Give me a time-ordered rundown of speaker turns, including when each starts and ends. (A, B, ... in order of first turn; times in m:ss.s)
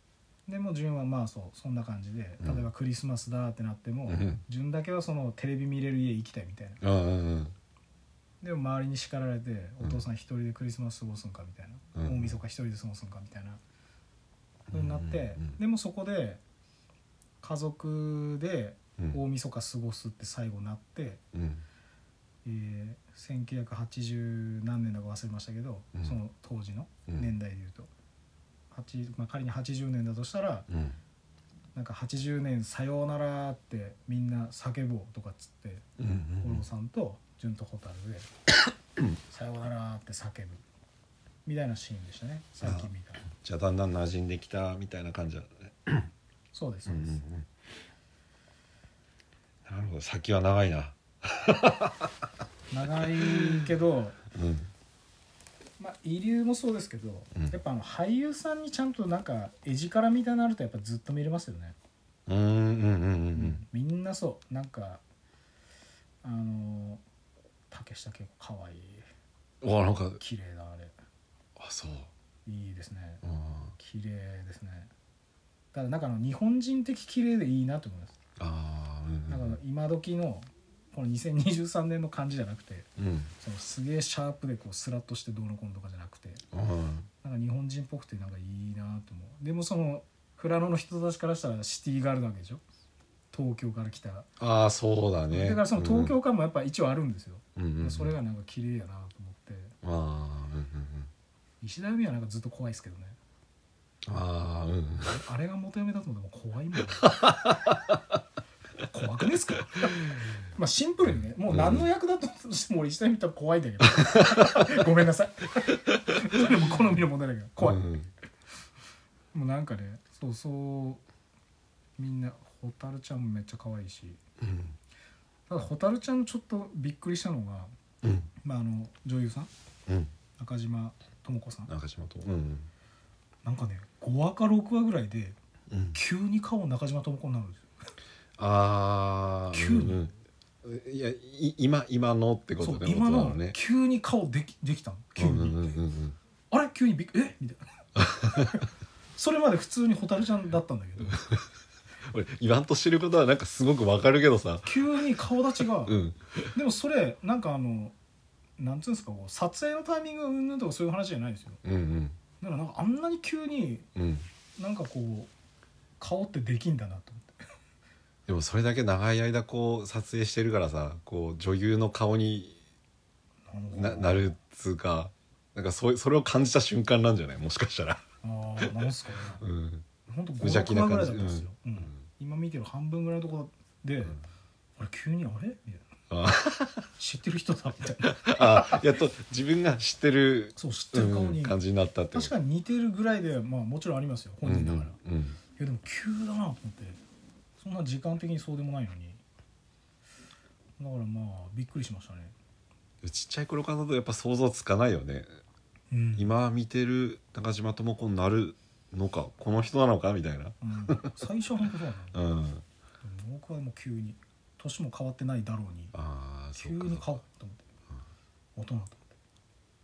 0:00.5-0:06.8 A
0:04.1-0:04.4 B
0:06.8-0:07.6 B
0:08.4-0:13.6 A
0:12.0-0:12.4 B
0:14.7-0:15.6 B
0:14.7-0:16.4 A
0:17.4-0:21.2 A
0:21.3-0:21.6 B
0:22.4-0:27.9 A
0:28.7-0:30.7 A
0:30.7-0:31.0 B
0:31.8-0:35.8 A
0:36.0-0:36.6 B
0:36.4-0:38.3 A
0:39.3-0:40.6 A
0:41.4-0:43.2 A
0:42.6-0:46.1 B
0:46.5-0:47.2 A
0:46.9-0:47.5 B
0:49.7-0:52.1 B
0:52.7-0:54.2 A
0:53.3-0:53.5 B
0:54.3-0:54.7 B
0:55.8-1:01.8 A
1:02.3-1:03.6 B
1:03.3-1:05.0 A
1:06.2-1:07.0 A
1:07.7-1:09.0 A
1:09.6-1:10.2 B
1:10.2-1:11.0 A
1:11.6-1:12.1 B
1:12.4-1:13.2 A
1:13.2-1:13.7 B
1:13.8-1:14.9 A
1:15.7-1:18.2 A
1:18.4-1:19.6 B
1:19.3-1:22.9 A
1:23.0-1:23.3 B
1:23.4-1:26.4 A
1:26.5-1:27.1 B
1:27.2-1:32.6 A
1:33.3-1:34.3 A
1:34.4-1:36.2 B
1:35.3-1:39.8 A
1:37.6-1:38.2 B
1:39.8-1:41.1 B
1:41.6-1:43.2 A
1:44.1-1:45.2 B
1:45.1-1:47.1 A
1:47.0-1:47.8 B
1:48.9-1:50.0 A
1:50.6-1:57.8 A
1:51.5-1:51.9 B
1:54.0-1:54.6 B
1:57.6-1:58.1 B
1:59.3-2:01.0 A
2:02.0-2:04.2 A
2:04.4-2:04.8 B
2:05.5-2:07.7 A
2:08.0-2:08.3 B
2:08.4-2:09.5 A
2:10.4-2:11.7 A
2:11.7-2:12.7 B
2:13.4-2:15.4 A
2:15.7-2:16.0 B
2:15.9-2:17.7 A
2:18.4-2:23.6 B
2:19.5-2:20.0 A
2:22.6-2:25.8 A
2:25.2-2:26.2 B
2:26.5-2:27.8 A
2:28.0-2:28.6 B
2:28.3-2:28.6 A
2:29.2-2:31.2 A
2:31.1-2:31.4 B
2:32.1-2:34.8 B
2:34.6-2:36.0 A
2:35.8-2:36.5 B
2:36.6-2:38.0 A
2:38.6-2:41.6 A
2:41.6-2:42.2 B
2:42.4-2:43.9 A
2:44.0-2:44.3 B
2:44.6-2:45.3 A
2:46.0-2:47.4 A
2:48.3-2:52.6 B
2:53.5-2:54.3 A
2:53.7-2:58.0 B
2:58.2-2:59.4 A
2:59.4-2:59.9 B
3:00.1-3:04.2 A
3:00.4-3:01.9 B
3:04.8-3:05.8 A
3:06.1-3:06.9 B
3:07.0-3:08.9 A
3:08.0-3:12.3 B
3:10.6-3:11.6 A
3:12.1-3:15.0 A
3:14.4-3:15.4 B
3:15.6-3:17.0 A
3:17.6-3:19.2 A
3:20.8-3:22.3 A
3:23.0-3:25.3 B
3:25.9-3:26.3 A
3:26.2-3:31.1 B
3:30.6-3:32.2 A
3:32.1-3:32.6 B
3:33.0-3:35.9 A
3:35.9-3:37.1 B
3:36.6-3:37.6 A
3:38.6-3:39.0 A